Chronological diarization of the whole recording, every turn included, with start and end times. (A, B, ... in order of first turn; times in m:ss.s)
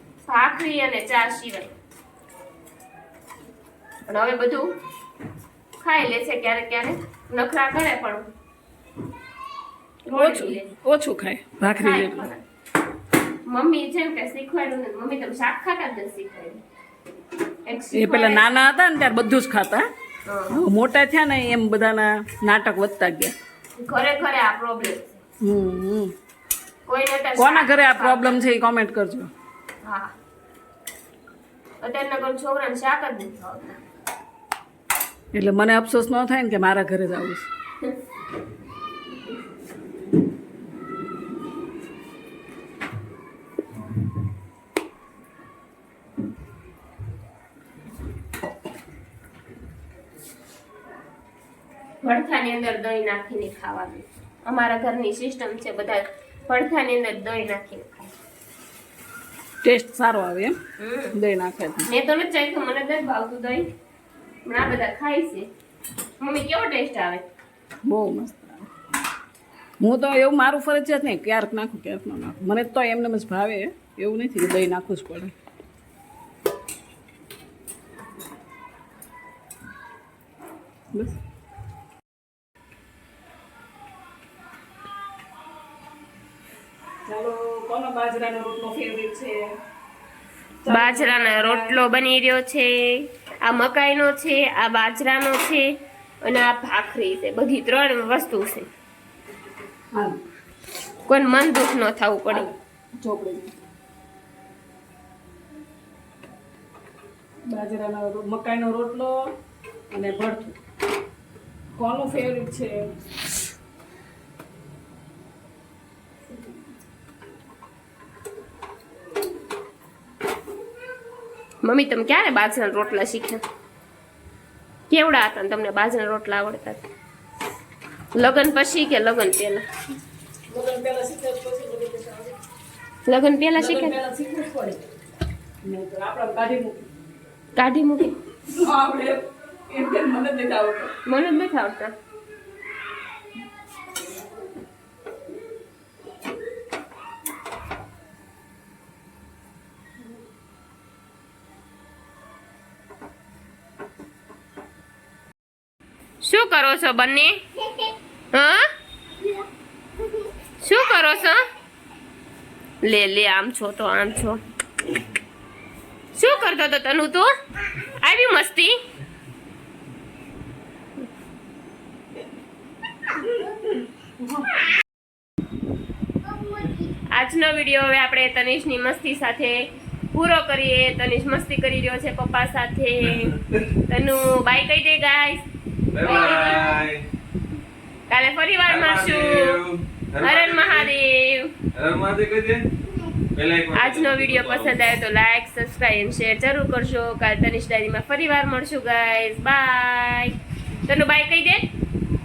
0:00.3-0:01.8 A
0:04.1-0:04.7 A
0:05.8-0:08.2 A
0:10.1-0:10.7 A
0:10.1-0:12.3 B
0:11.6-0:12.4 A
0:13.5-0:16.6 A
0:17.7-0:18.5 A
0:17.9-0:19.9 B
0:20.3-0:20.6 A
0:20.5-0:23.3 B
0:23.8-0:25.2 A
0:25.4-0:26.1 B
0:26.9-0:28.4 A
0:27.4-0:29.3 B
0:29.8-0:30.1 A
0:31.8-0:33.8 A
0:35.3-0:37.5 B
0:52.0-0:58.1 A
0:59.6-1:00.6 B
1:00.8-1:01.2 A
1:01.1-1:01.9 B
1:01.9-1:03.7 A
1:04.5-1:05.5 A
1:06.2-1:07.3 A
1:07.9-1:08.7 B
1:09.8-1:15.3 B
1:27.1-1:29.5 B
1:30.6-1:31.8 B
1:30.7-1:35.7 A
1:36.2-1:38.7 A
1:40.0-1:40.2 B
1:41.1-1:42.5 A
1:42.3-1:43.5 B
1:47.5-1:49.2 B
1:49.9-1:50.6 B
1:51.8-1:52.8 B
2:01.6-2:03.4 A
2:04.9-2:06.8 A
2:08.1-2:09.7 A
2:10.5-2:12.4 B
2:13.1-2:14.0 A
2:13.6-2:14.8 B
2:15.6-2:16.9 B
2:17.6-2:18.2 A
2:18.5-2:20.9 B
2:21.1-2:21.9 A
2:36.2-2:37.4 A
2:38.3-2:38.7 A
2:40.6-2:41.4 A
2:42.8-2:44.4 A
2:46.2-2:48.8 A
2:57.1-2:59.6 A
3:00.1-3:03.4 A
3:03.1-3:03.6 C
3:03.9-3:05.4 A
3:05.9-3:07.1 C
3:06.0-3:06.8 A
3:08.1-3:09.6 A
3:08.7-3:10.9 C
3:10.2-3:11.5 A
3:11.7-3:12.7 C
3:13.4-3:15.0 C
3:13.8-3:21.6 A